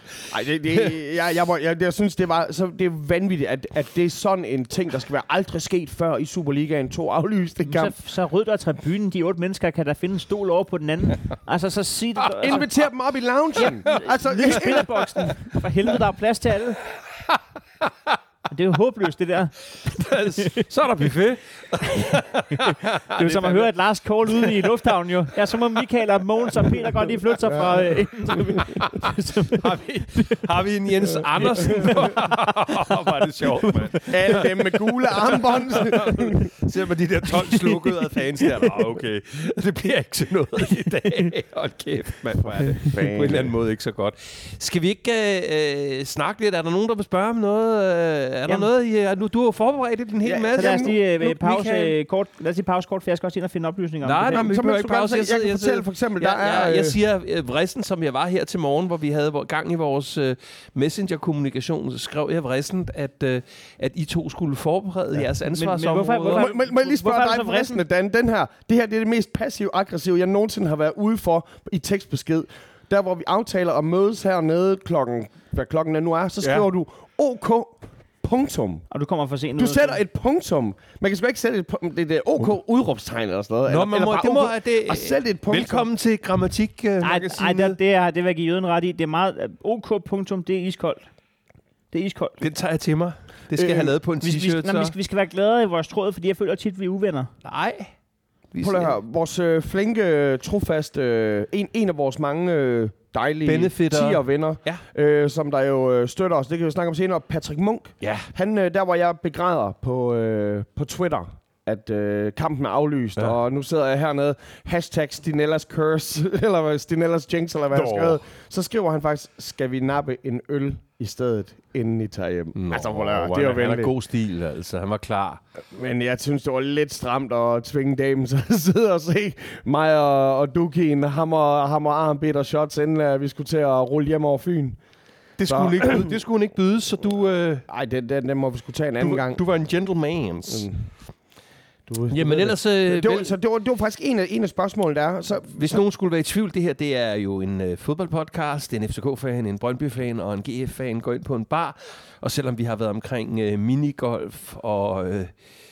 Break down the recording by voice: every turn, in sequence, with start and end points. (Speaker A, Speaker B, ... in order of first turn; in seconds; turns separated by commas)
Speaker A: 0.3-8.0, Speaker B: 7.6-12.7, Speaker A: 12.4-15.6, Speaker B: 13.6-16.8, Speaker B: 18.5-19.5, Speaker C: 19.9-23.7, Speaker B: 20.1-20.6, Speaker B: 22.6-30.5, Speaker C: 28.7-52.0, Speaker A: 31.6-32.1, Speaker B: 31.7-31.9, Speaker A: 34.1-36.5, Speaker A: 42.7-43.5, Speaker A: 50.2-51.0, Speaker B: 50.6-54.5, Speaker C: 54.0-66.5, Speaker A: 54.4-57.0, Speaker B: 65.5-67.8, Speaker A: 66.3-78.8, Speaker C: 76.4-76.7, Speaker B: 78.9-80.0, Speaker A: 79.6-85.9, Speaker C: 83.7-87.8, Speaker B: 87.0-91.1, Speaker B: 91.9-92.4, Speaker C: 92.4-94.9, Speaker A: 93.5-93.9, Speaker B: 94.2-97.3, Speaker C: 97.4-97.9, Speaker C: 98.5-99.0, Speaker A: 98.6-123.9, Speaker C: 103.5-104.8, Speaker C: 108.0-108.3, Speaker C: 117.7-118.2, Speaker C: 122.6-125.4, Speaker A: 125.7-134.8, Speaker C: 135.4-137.7, Speaker A: 135.5-136.2, Speaker A: 137.7-139.4, Speaker C: 139.0-140.7, Speaker A: 140.5-140.9, Speaker A: 141.9-145.8, Speaker C: 142.1-143.3, Speaker C: 145.6-155.3